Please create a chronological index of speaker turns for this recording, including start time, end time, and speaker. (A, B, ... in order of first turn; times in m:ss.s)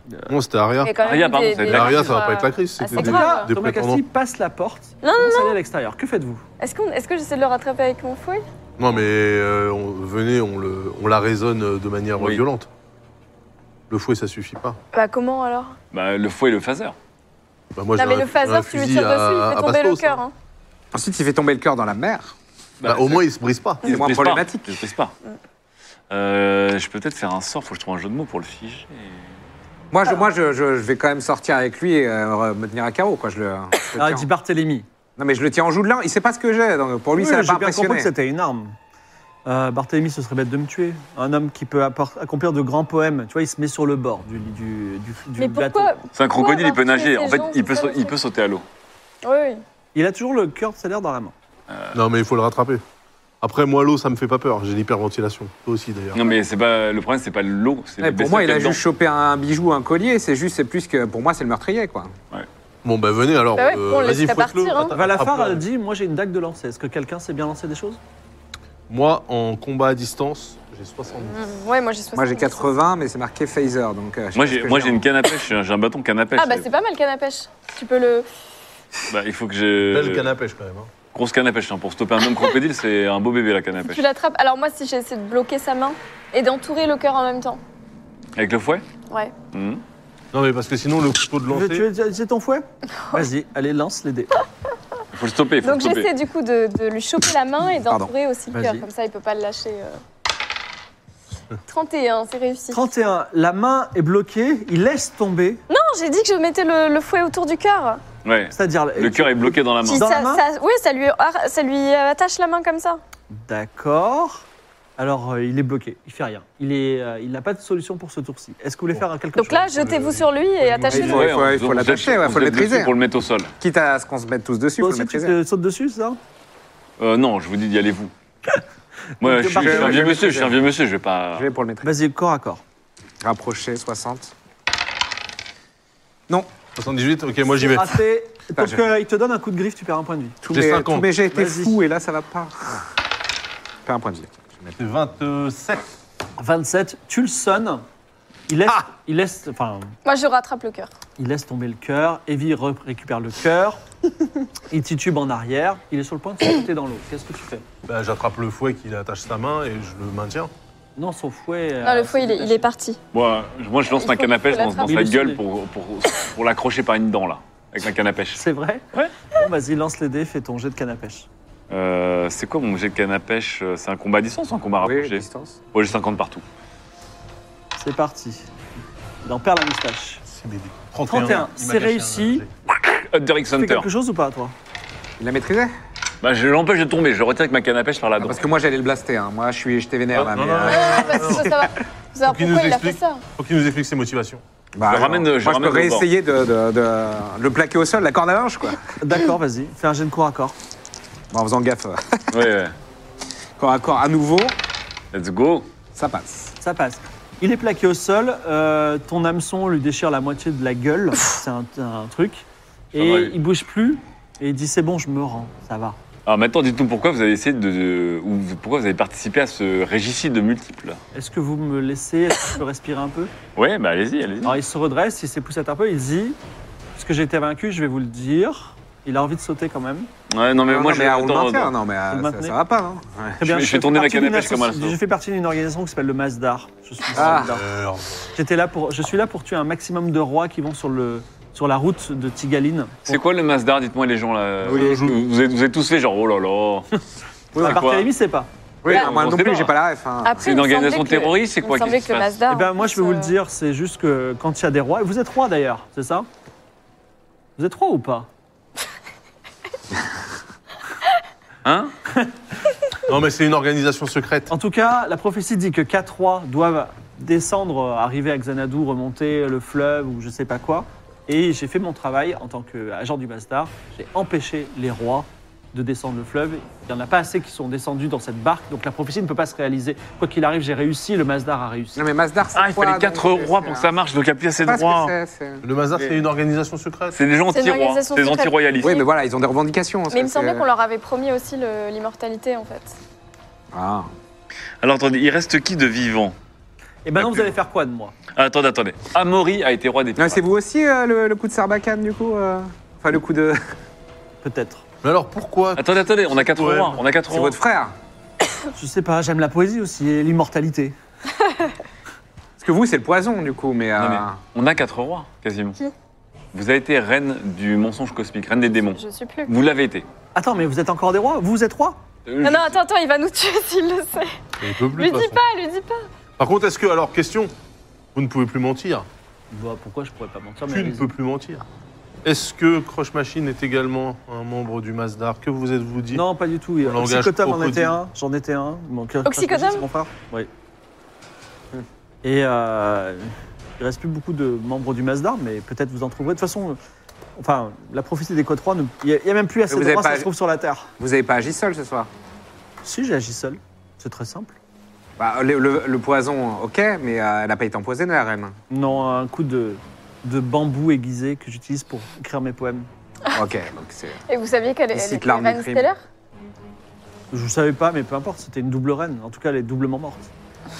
0:00.3-0:00.9 A
0:00.8-0:03.5 B
0:01.0-0:02.2 C
0:01.6-0:04.0 A
0:02.9-0:06.4 D
0:05.0-0:05.6 B
0:06.6-0:08.4 B
0:08.8-0:12.7 A
0:13.9-0:14.8 A
0:14.9-0:15.8 B
0:15.9-0:17.0 C
0:17.7-0:20.2 A
0:18.0-0:20.3 B
0:20.9-0:22.3 E
0:22.8-0:23.2 C
0:22.8-0:23.8 A
0:23.8-0:24.9 E
0:23.8-0:25.1 C
0:26.1-0:29.3 C
0:29.9-0:34.3 E
0:33.9-0:34.8 D
0:35.2-0:38.1 E
0:37.1-0:38.8 D
0:39.4-0:45.9 D
0:45.4-0:48.1 B
0:46.1-0:48.6 C
0:49.2-0:49.6 B
0:49.9-0:51.3 D
0:51.7-0:52.0 C
0:51.9-0:52.8 A
0:53.4-0:56.2 A
0:56.1-0:58.8 C
0:58.0-1:02.1 E
1:02.8-1:05.6 A
1:03.5-1:05.0 B
1:04.9-1:08.0 D
1:08.9-1:11.3 A
1:11.2-1:12.7 B
1:12.1-1:15.1 E
1:14.3-1:16.7 C
1:16.4-1:18.3 B
1:19.1-1:20.3 C
1:19.8-1:20.9 A
1:21.1-1:24.0 C
1:23.8-1:27.6 B
1:28.4-1:28.8 C
1:29.1-1:29.3 B
1:29.5-1:29.8 C
1:30.3-1:31.9 A
1:31.5-1:34.3 D
1:35.1-1:36.1 C
1:35.6-1:40.0 B
1:37.8-1:38.1 E
1:38.5-1:38.9 D
1:41.7-1:42.8 B
1:42.7-1:45.6 D
1:45.7-1:48.0 B
1:48.2-1:50.1 C
1:48.5-1:50.4 D
1:49.8-1:53.0 B
1:53.3-1:54.4 D
1:55.0-1:59.9 D
1:59.3-2:01.3 B
1:59.7-2:01.2 A
2:00.9-2:02.9 E
2:01.0-2:03.5 C
2:03.6-2:05.4 E
2:04.8-2:06.2 D
2:07.0-2:08.1 C
2:09.2-2:10.2 D
2:09.2-2:11.5 C
2:09.5-2:10.6 E
2:11.4-2:11.9 E
2:11.8-2:12.6 D
2:13.2-2:14.3 E
2:16.8-2:18.0 A
2:17.6-2:20.4 D
2:18.5-2:18.8 E
2:20.4-2:22.8 E
2:20.5-2:21.1 A
2:21.3-2:21.8 D
2:23.8-2:24.8 E
2:24.8-2:25.8 A
2:26.4-2:27.8 D
2:28.5-2:29.9 D
2:30.0-2:30.9 B
2:31.2-2:33.8 D
2:34.7-2:37.6 D
2:37.8-2:40.5 A
2:41.0-2:42.7 D
2:41.8-2:43.0 B
2:43.1-2:48.4 C
2:43.9-2:44.9 B
2:44.8-2:45.4 D
2:48.4-2:51.3 D
2:51.7-2:56.4 C
2:54.8-2:55.6 E
2:57.8-2:58.5 D
2:59.2-3:00.2 D
3:00.3-3:02.5 A
3:01.1-3:02.4 D
3:02.8-3:03.9 C
3:03.5-3:04.5 D
3:05.2-3:05.7 E
3:06.2-3:08.4 C
3:08.2-3:11.6 E
3:10.1-3:11.5 A
3:10.7-3:13.2 B
3:12.2-3:14.4 A
3:14.7-3:18.8 E
3:14.8-3:16.0 C
3:19.0-3:20.5 D
3:21.3-3:22.5 E
3:22.3-3:22.7 C
3:23.6-3:24.6 E
3:25.1-3:25.7 C
3:25.9-3:26.5 E
3:26.6-3:36.0 D
3:33.0-3:33.3 C
3:36.2-3:41.0 C
3:41.1-3:43.3 D
3:43.6-3:44.6 C
3:44.4-3:46.4 D
3:47.0-3:50.1 D
3:50.3-3:51.7 C
3:50.7-3:53.4 E
3:52.1-3:52.6 D
3:53.4-3:57.7 D
3:53.4-3:55.0 C
3:57.1-3:58.3 A
3:57.2-3:57.5 E
3:58.3-4:03.2 D
4:03.1-4:06.9 C
4:04.6-4:05.2 A
4:07.5-4:07.8 E
4:07.5-4:08.1 C
4:07.6-4:08.5 D
4:08.8-4:10.4 E
4:08.8-4:09.7 C
4:10.2-4:13.3 B
4:10.4-4:12.4 C
4:12.5-4:16.3 D
4:17.6-4:18.3 D
4:21.6-4:21.9 C
4:23.1-4:24.5 A
4:24.5-4:42.0 D
4:42.0-4:43.9 E
4:42.5-4:45.1 C
4:44.6-4:45.6 E
4:45.6-4:47.2 A
4:47.1-4:49.0 C
4:47.5-4:49.0 B
4:48.8-4:50.6 E
4:50.1-4:52.9 B
4:53.7-4:54.1 E
4:54.8-4:56.4 C
4:57.0-4:58.1 D
4:57.2-4:57.5 C
4:58.3-5:00.4 C
5:00.2-5:03.6 E
5:04.4-5:04.8 D
5:05.0-5:07.1 A
5:05.8-5:07.5 C
5:07.3-5:07.9 E
5:08.7-5:10.9 D
5:12.6-5:14.4 E
5:14.0-5:15.8 C
5:16.5-5:20.0 C
5:18.9-5:19.5 B
5:20.3-5:22.0 D
5:22.2-5:22.8 C
5:22.4-5:24.4 B
5:24.6-5:25.4 A
5:24.9-5:26.1 B
5:26.4-5:27.5 A
5:28.1-5:29.1 A
5:29.5-5:31.1 D
5:30.7-5:31.6 A
5:32.2-5:36.2 A
5:36.1-5:40.5 D
5:36.8-5:38.0 A
5:39.2-5:39.8 B
5:42.2-5:46.8 D
5:47.4-5:50.9 D
5:49.7-5:50.3 E
5:51.0-5:52.1 E
5:52.8-5:54.6 D
5:55.2-5:58.6 E
5:58.7-6:02.9 D
6:03.3-6:04.2 E
6:04.3-6:06.0 B
6:04.9-6:05.9 E
6:07.3-6:10.3 D